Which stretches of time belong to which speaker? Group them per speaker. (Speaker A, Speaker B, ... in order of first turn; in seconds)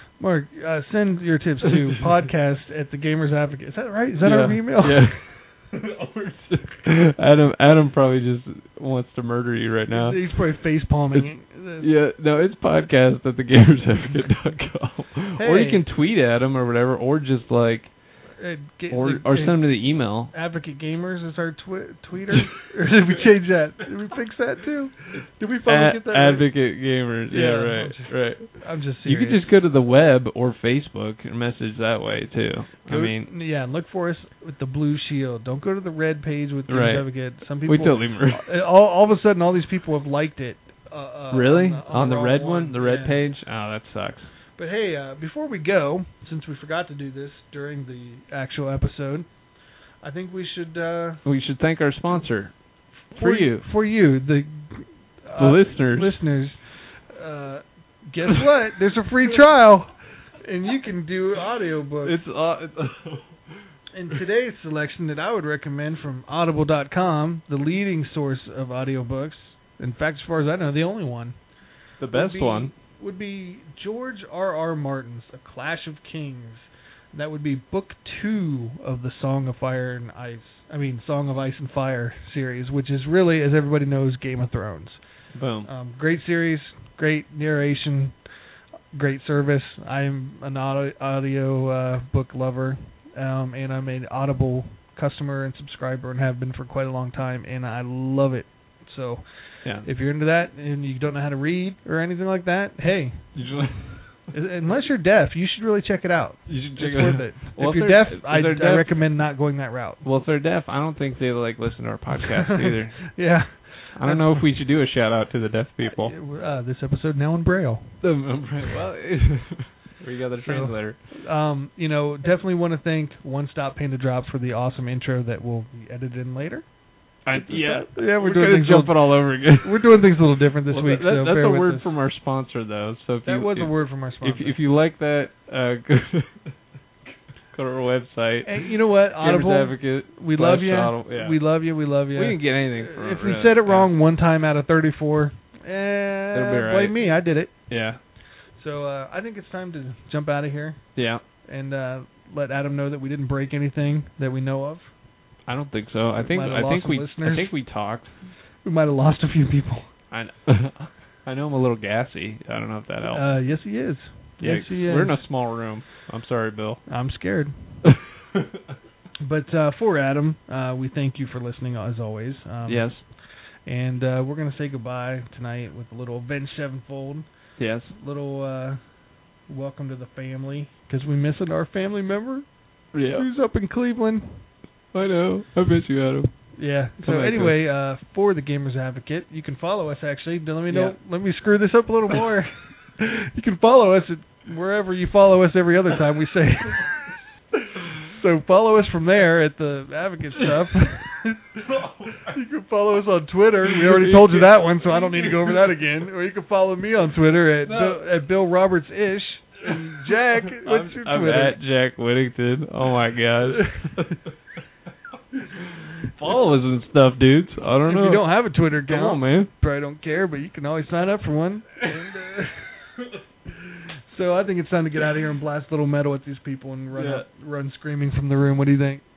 Speaker A: 0.2-5.1, 9.9-11.9, 15.3-15.8, 18.4-29.6, 32.9-43.2, 44.5-51.2, 53.1-62.2, 63.9-71.4, 72.0-103.6, 104.3-110.0, 112.6-114.5, 115.8-118.4, 120.4-131.9, 133.2-134.6, 138.4-154.9, 156.2-159.9, 163.0-165.7, 166.9-168.0, 169.2-184.5, 186.5-197.2, 197.9-201.5, 202.2-211.6, 217.8-222.7, 224.1-229.0
Speaker B: 4.2-10.5, 11.8-18.0, 18.9-20.3, 25.6-33.3, 36.7-38.5, 41.3-44.3, 51.2-53.7, 55.4-56.2, 62.0-63.6, 72.0-72.7, 85.3-85.7, 99.6-99.9, 103.3-104.1, 106.5-109.1, 110.0-116.2, 118.0-121.0, 127.2-130.1, 130.7-136.5, 137.4-143.9, 146.3-148.0, 150.9-151.2, 155.4-158.2, 160.1-163.8, 164.4-166.9, 172.7-173.0, 177.6-177.9, 182.9-183.2, 184.9-187.6, 190.7-191.0, 201.7-202.3, 203.7-205.8, 207.6-208.0, 209.7-214.2, 216.0-219.5, 226.9-227.3